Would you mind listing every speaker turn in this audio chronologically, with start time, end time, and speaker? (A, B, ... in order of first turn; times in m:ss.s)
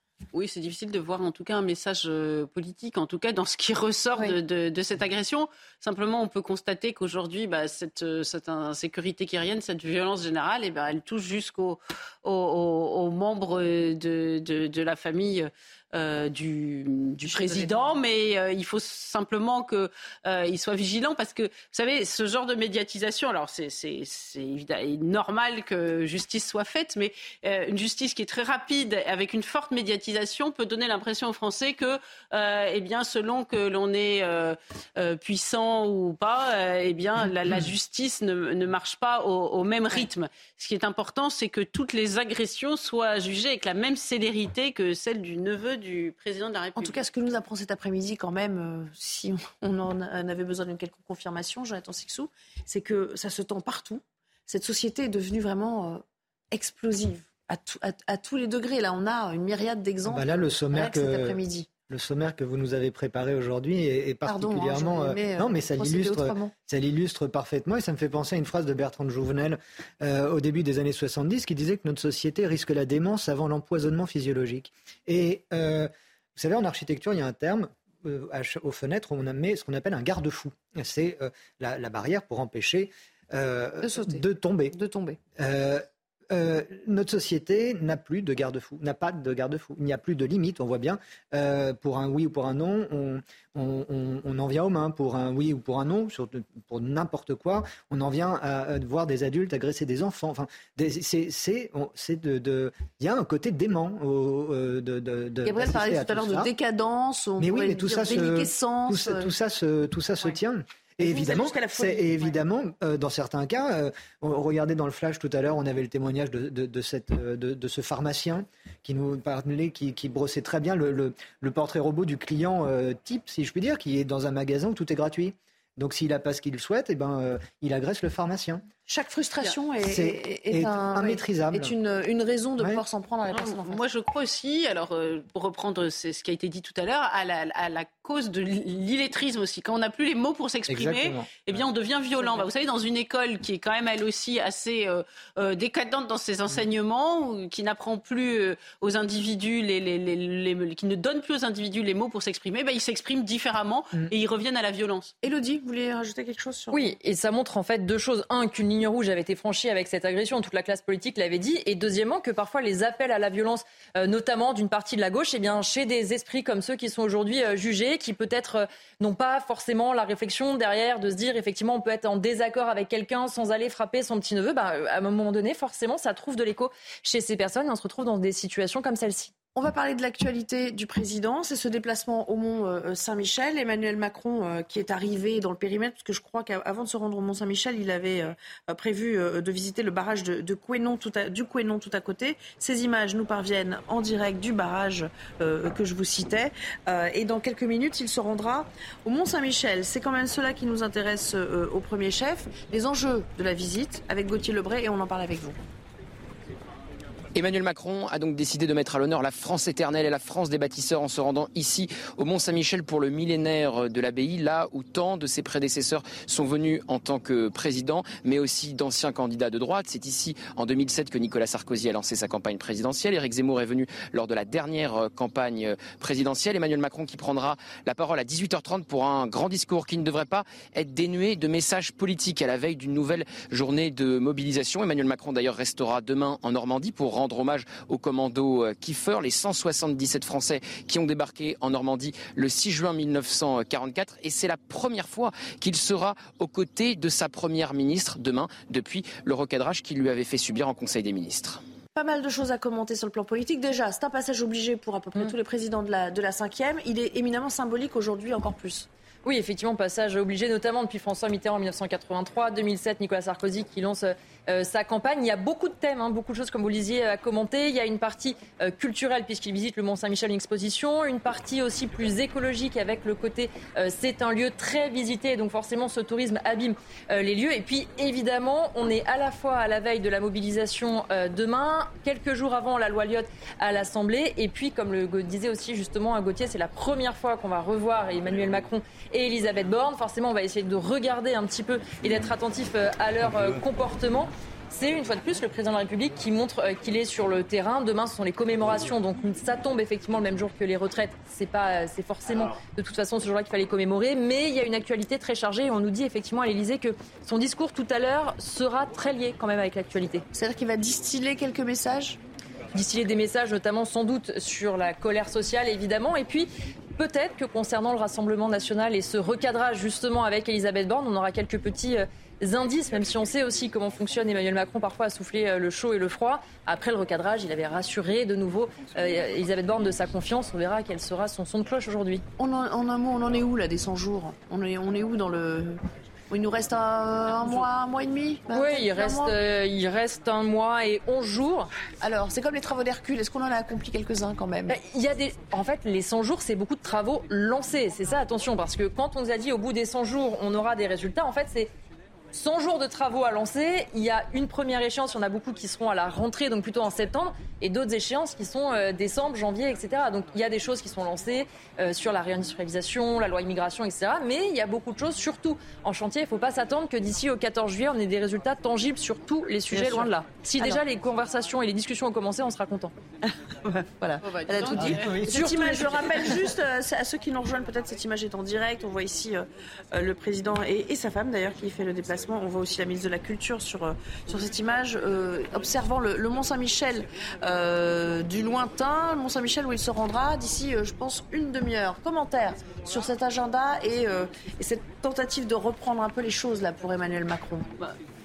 0:00.3-0:47.1 A
0:17.2-0:17.8 B
0:46.8-1:01.7 B
1:00.0-1:24.8 C
1:04.2-1:06.5 B
1:23.8-1:24.2 B
1:24.7-1:25.2 B
1:25.4-1:46.5 C
1:45.4-1:49.3 B
1:47.4-2:08.6 C
1:51.0-1:52.4 B
2:08.9-2:13.8 B
2:09.8-2:11.7 C
2:13.3-2:35.1 A
2:20.7-2:21.6 C
2:35.2-2:36.9 B
2:36.7-2:59.3 D
2:59.5-3:25.6 B
3:27.3-4:11.6 E
4:11.9-4:18.9 B
4:19.2-5:10.2 D
5:10.3-5:12.2 B
5:12.7-5:32.2 D
5:32.4-5:35.8 B
5:36.3-5:39.4 B
5:38.5-5:41.7 D
5:42.0-5:44.8 B
5:44.7-5:51.7 D
5:52.3-6:12.9 D
6:09.7-6:10.8 B
6:13.2-6:37.7 B
6:14.2-6:15.3 A
6:14.8-6:15.4 C
6:15.3-6:16.4 D